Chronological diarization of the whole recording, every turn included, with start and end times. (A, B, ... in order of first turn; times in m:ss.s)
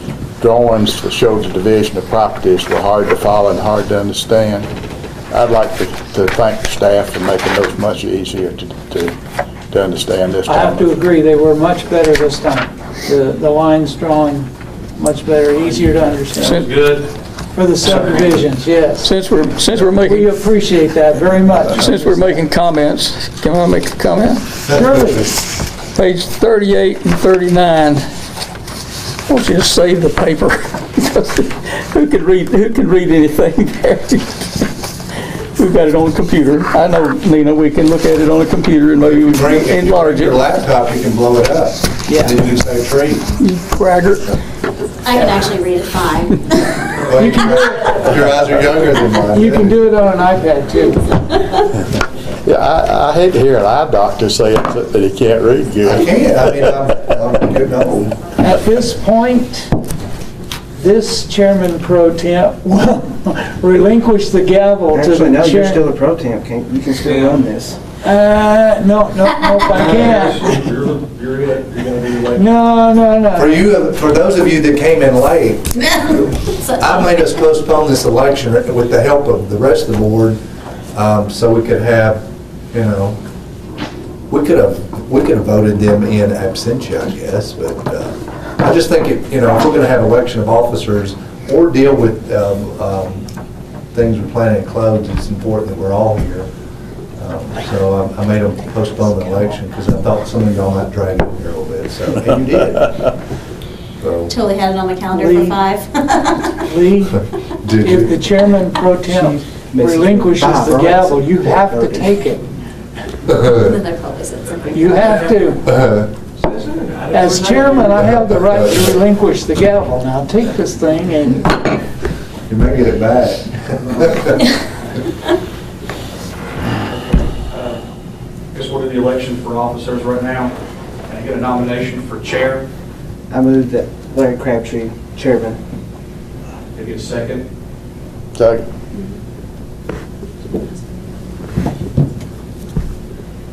0:00.4-0:04.7 A
0:05.3-0:09.2 A
0:09.7-0:10.9 A
0:10.5-0:16.6 B
0:16.3-0:17.1 C
0:16.4-0:16.8 D
0:17.5-0:19.1 B
0:17.8-0:18.5 C
0:19.0-0:20.3 D
0:20.0-0:22.4 B
0:21.6-0:24.4 D
0:24.7-0:25.3 B
0:25.9-0:28.1 D
0:29.3-0:34.7 D
0:35.6-0:40.4 D
0:39.0-0:43.3 E
0:42.1-0:42.4 F
0:43.4-0:44.4 D
0:45.0-0:46.9 G
0:47.1-0:49.8 E
0:47.1-0:48.0 B
0:49.2-0:51.2 B
0:52.4-0:56.7 A
0:55.8-0:58.2 E
0:58.4-0:59.7 B
1:00.8-1:05.9 B
1:04.9-1:07.8 F
1:07.0-1:07.4 C
1:08.0-1:10.7 B
1:09.7-1:12.5 C
1:12.3-1:13.7 B
1:13.3-1:15.8 E
1:15.8-1:17.2 G
1:16.8-1:20.4 E
1:20.9-1:23.2 E
1:24.3-1:33.3 E
1:33.9-1:36.5 E
1:37.2-1:43.1 E
1:44.0-1:44.4 E
1:44.3-1:46.6 G
1:45.1-1:45.6 B
1:46.5-1:47.2 B
1:47.6-1:48.2 E
1:47.8-1:52.5 B
1:49.1-1:52.1 F
1:53.3-1:55.0 G
1:54.7-1:55.7 B
1:55.6-1:56.1 E
1:56.6-1:58.0 C
1:57.1-2:01.7 B
1:58.0-1:58.9 E
2:02.5-2:04.4 E
2:03.9-2:04.4 C
2:06.8-2:07.8 C
2:08.5-2:10.6 C
2:11.1-2:12.7 C
2:13.3-2:15.6 F
2:16.8-2:17.5 C
2:18.4-2:18.6 A